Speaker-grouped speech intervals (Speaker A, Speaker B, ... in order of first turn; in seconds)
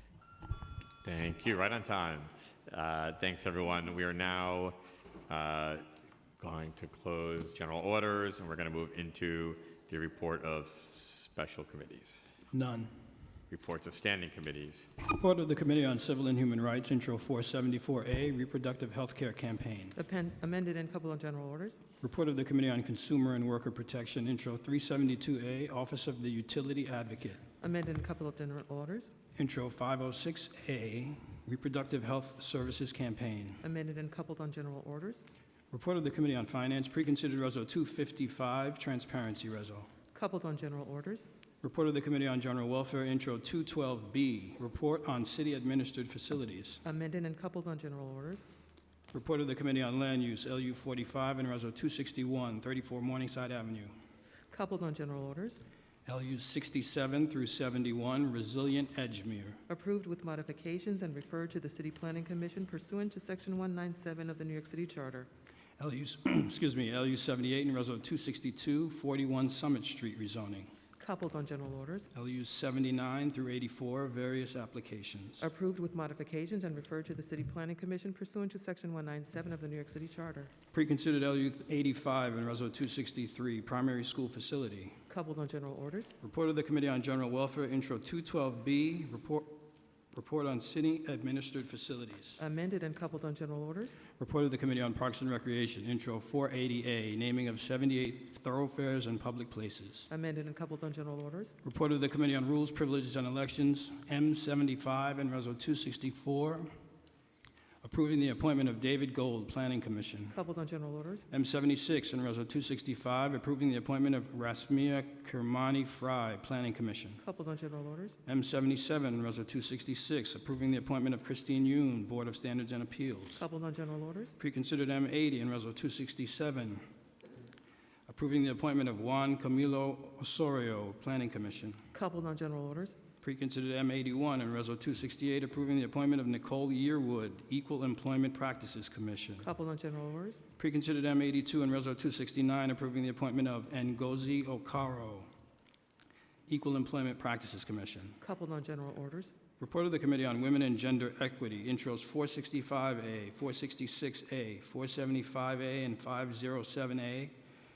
Speaker A: 1.0-4.8, 5.3-5.8, 6.4-12.2, 13.5-14.9
Speaker B: 12.5-12.9, 15.0-20.0, 22.0-27.4, 29.4-33.6, 35.7-39.9, 41.6-46.8, 49.1-53.9, 56.1-59.6, 65.8-70.7, 72.1-75.5, 80.7-85.0, 86.2-92.4, 94.2-100.1, 101.6-106.7, 107.8-110.4, 111.3-117.2, 118.3-123.4, 124.4-126.8, 128.1-131.8, 133.2-139.5, 140.6-145.3, 146.5-148.2, 149.6-157.3
Speaker C: 20.0-21.8, 27.6-29.1, 33.6-35.2, 40.1-41.3, 46.8-48.4, 54.5-55.6, 59.7-65.3, 71.0-72.1, 75.4-80.5, 85.1-86.1, 92.4-94.0, 100.1-101.5, 110.3-111.3, 117.2-118.2, 123.4-124.3, 131.9-133.0, 139.4-140.4, 148.2-149.3